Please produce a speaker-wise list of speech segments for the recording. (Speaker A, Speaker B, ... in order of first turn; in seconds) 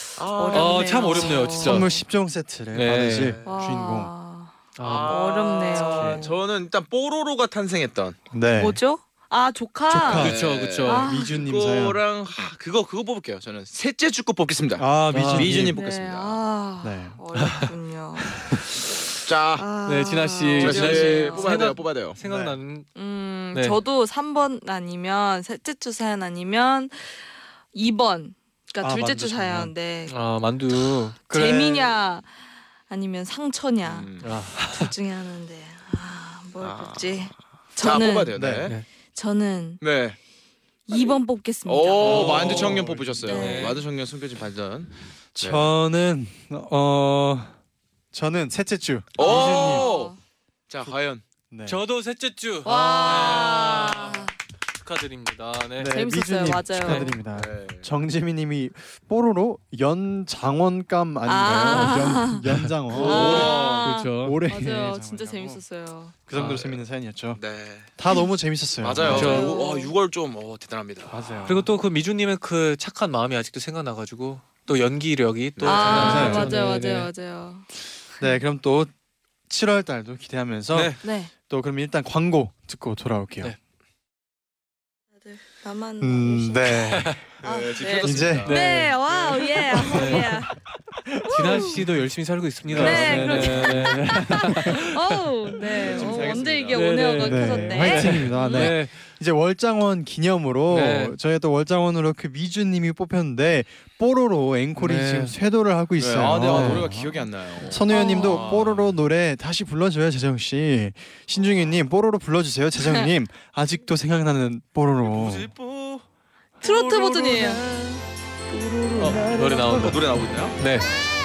Speaker A: 0.2-1.5, 3.1-3.6, 4.8-8.2, 10.2-16.4, 19.2-19.7, 20.6-22.2, 33.8-34.4, 36.6-38.8, 39.8-40.2, 41.7-45.7, 49.2-50.1, 50.7-51.2, 57.3-57.9, 62.9-63.9, 67.3-68.0, 68.8-71.3, 75.6-76.4, 87.4-90.0, 92.7-93.4, 95.7-96.9, 106.0-109.0, 115.0-116.1, 116.6-120.6
Speaker B: 0.3-2.0, 3.4-6.3, 8.6-11.3, 15.7-18.5, 19.6-21.7, 22.9-30.1, 31.3-32.3, 32.9-38.4, 39.1-39.8, 40.9-43.8, 49.2-50.2, 52.6-54.3, 55.9-57.1, 61.2-66.2, 69.0-69.9, 75.7-77.7, 81.0-81.3, 85.2-90.6, 91.3-91.8, 92.8-98.7, 107.9-108.6, 116.6-117.6
Speaker C: 0.5-1.9, 2.7-3.4, 4.8-5.2, 10.1-11.1, 15.1-15.6, 19.9-22.9, 30.1-31.2, 34.2-34.9, 42.0-43.8, 51.7-54.3, 54.8-55.9, 56.9-57.1, 61.6-64.4, 66.3-66.7, 69.0-69.5, 71.5-77.1, 86.9-87.2, 88.4-89.0, 89.8-90.5, 91.2-95.2, 96.7-99.0, 100.7-101.2, 104.8-105.3, 106.5-106.9, 119.0-120.9
Speaker D: 1.6-4.1, 5.8-6.3, 8.3-8.8, 9.9-12.0, 14.8-15.8, 16.8-17.2, 22.2-22.6, 28.8-29.7, 31.3-31.9, 38.3-38.7, 42.1-43.3, 45.4-47.6, 48.1-49.9, 51.5-51.8, 55.8-65.6, 66.3-67.4, 68.0-69.5, 71.1-71.7, 75.8-76.6, 78.2-78.9, 79.5-83.6, 86.0-87.2, 87.9-88.5, 91.4-91.8, 92.7-94.8, 97.2-115.5